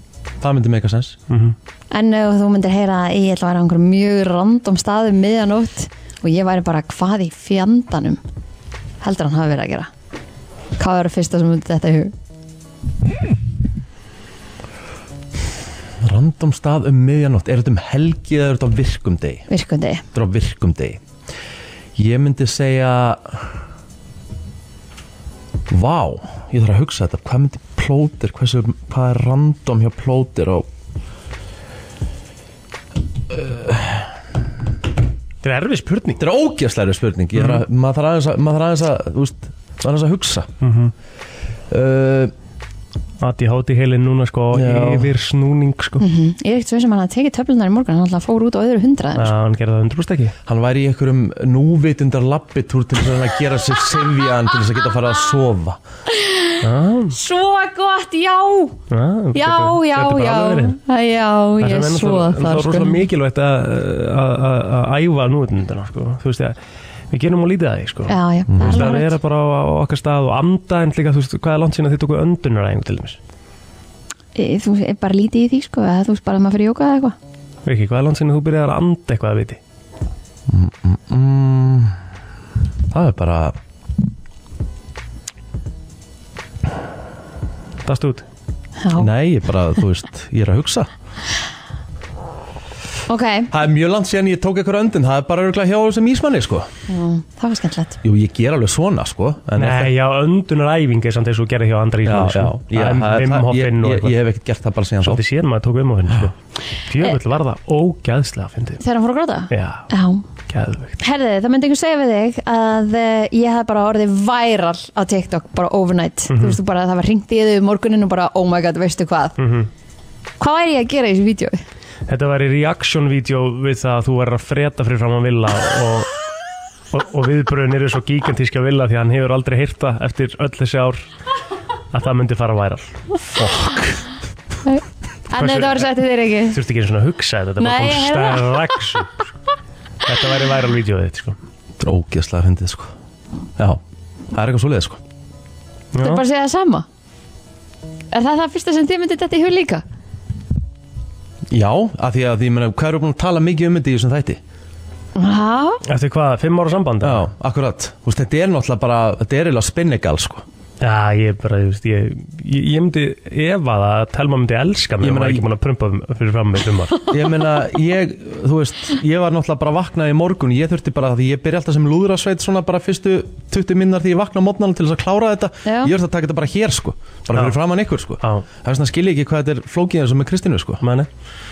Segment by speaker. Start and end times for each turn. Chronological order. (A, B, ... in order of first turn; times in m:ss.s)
0:00.4-0:01.2 A
0:01.3-0:01.6 B
0:01.9-0:08.2 C
0:09.0-0:09.9 C
0:10.8-0:12.1 C
0:16.0-0:19.4 A
0:19.5-0:20.0 C
0:20.1-0:21.0 A
0:22.0-0:23.5 A
0:25.7-0:30.7 A
0:33.3-0:34.1 A
0:35.4-0:36.2 B
0:36.2-0:40.5 A
0:40.6-0:40.9 B
0:41.7-0:42.3 A
0:43.2-0:46.0 B
0:44.5-0:45.1 A
0:46.0-0:49.3 C
0:49.2-0:50.3 B
0:50.5-0:55.8 A
0:56.1-0:56.6 C
0:56.6-0:57.2 B
0:57.1-0:58.8 C
0:58.9-1:00.8 B
0:59.3-1:03.0 C
1:01.6-1:06.6 B
1:07.1-1:13.2 B
1:08.1-1:09.2 C
1:08.5-1:08.9 A
1:14.4-1:17.1 C
1:17.6-1:19.6 B
1:20.5-1:22.0 A
1:22.9-1:23.6 A
1:27.8-1:28.2 B
1:28.8-1:29.1 C
1:28.9-1:30.9 A
1:33.1-1:33.5 C
1:33.5-1:36.7 A
1:36.9-1:38.0 C
1:38.0-1:39.9 A
1:39.6-1:44.2 B
1:42.0-1:45.2 A
1:45.0-1:46.3 B
1:46.8-1:48.8 B
1:48.8-1:50.2 C
1:49.5-1:49.9 B
1:50.5-1:51.0 B
1:51.0-1:59.4 C
1:56.3-1:56.6 B
1:59.4-1:59.7 B
2:00.4-2:01.6 C
2:02.1-2:06.1 B
2:06.9-2:11.1 B
2:11.9-2:13.0 B
2:13.3-2:14.0 A
2:14.6-2:16.6 C
2:15.4-2:15.9 B
2:16.5-2:19.3 B
2:17.6-2:18.6 C
2:20.0-2:21.4 B
2:21.8-2:22.9 A
2:24.3-2:25.0 A
2:25.9-2:26.2 B
2:26.0-2:26.8 C
2:28.1-2:29.8 C
2:31.5-2:34.4 A
2:35.2-2:35.8 C
2:35.8-2:37.3 B
2:37.0-2:40.4 A
2:40.8-2:47.1 B
2:45.0-2:45.4 A
2:47.1-3:00.8 A
2:55.6-2:55.9 C
2:57.3-2:57.6 B
3:00.8-3:01.1 B